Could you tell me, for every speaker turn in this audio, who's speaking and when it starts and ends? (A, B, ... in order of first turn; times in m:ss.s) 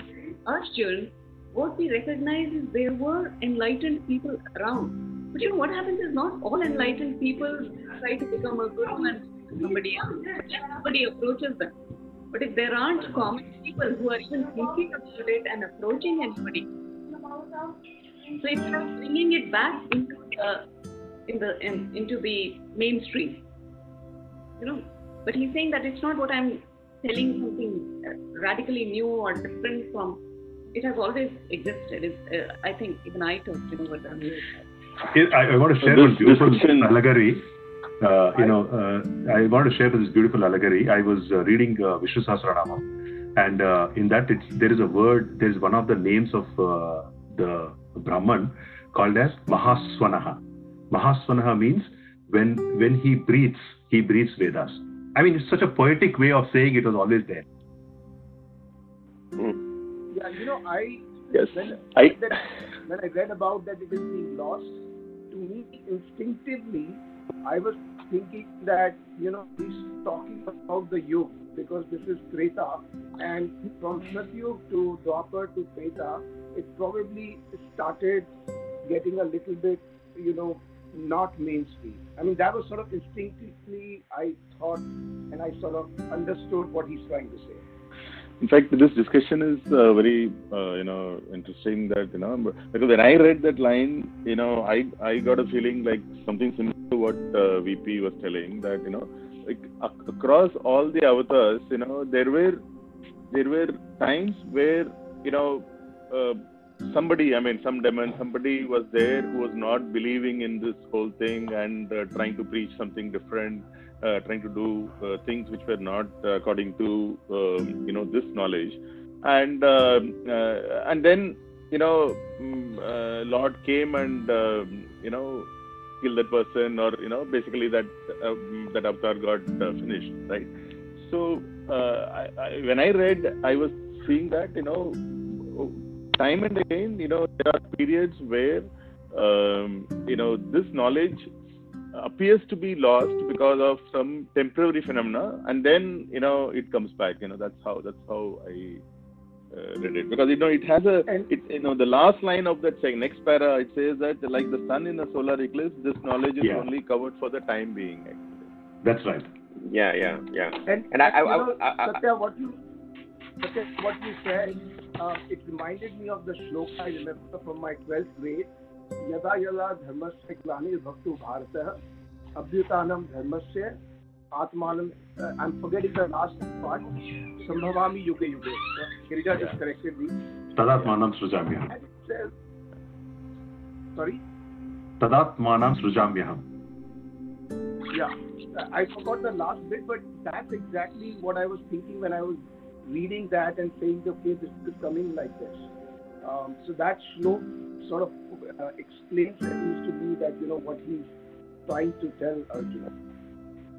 0:00.4-0:11.7 A
0:12.3-0:16.7 A
0:18.3-0:20.6 A
0:21.3-0:23.4 A
0:24.6-0:30.2 A
0:30.7-0:34.5 A
0:35.1-0:37.5 B
0:35.8-0:36.9 C
0:38.0-0:42.8 B
0:43.4-0:57.4 B
1:00.1-1:04.7 D
1:01.3-1:02.2 C
1:05.3-1:18.3 D
1:18.8-1:27.6 D
1:28.4-1:42.6 C
1:43.3-2:05.5 C
2:06.0-2:21.3 C
2:21.9-2:28.8 C
2:29.5-2:38.5 C
2:36.4-2:36.6 B
2:38.8-2:39.3 B
2:39.6-2:42.0 E
2:40.6-2:42.6 D
2:43.4-2:48.5 D
2:49.0-2:51.8 D
2:52.4-2:53.8 D
2:54.3-3:00.2 D
3:00.6-3:01.7 B
3:01.7-3:02.3 D
3:04.0-3:04.2 D
3:05.0-3:06.4 B
3:07.9-3:15.6 D
3:16.2-3:21.1 D
3:21.7-3:22.9 D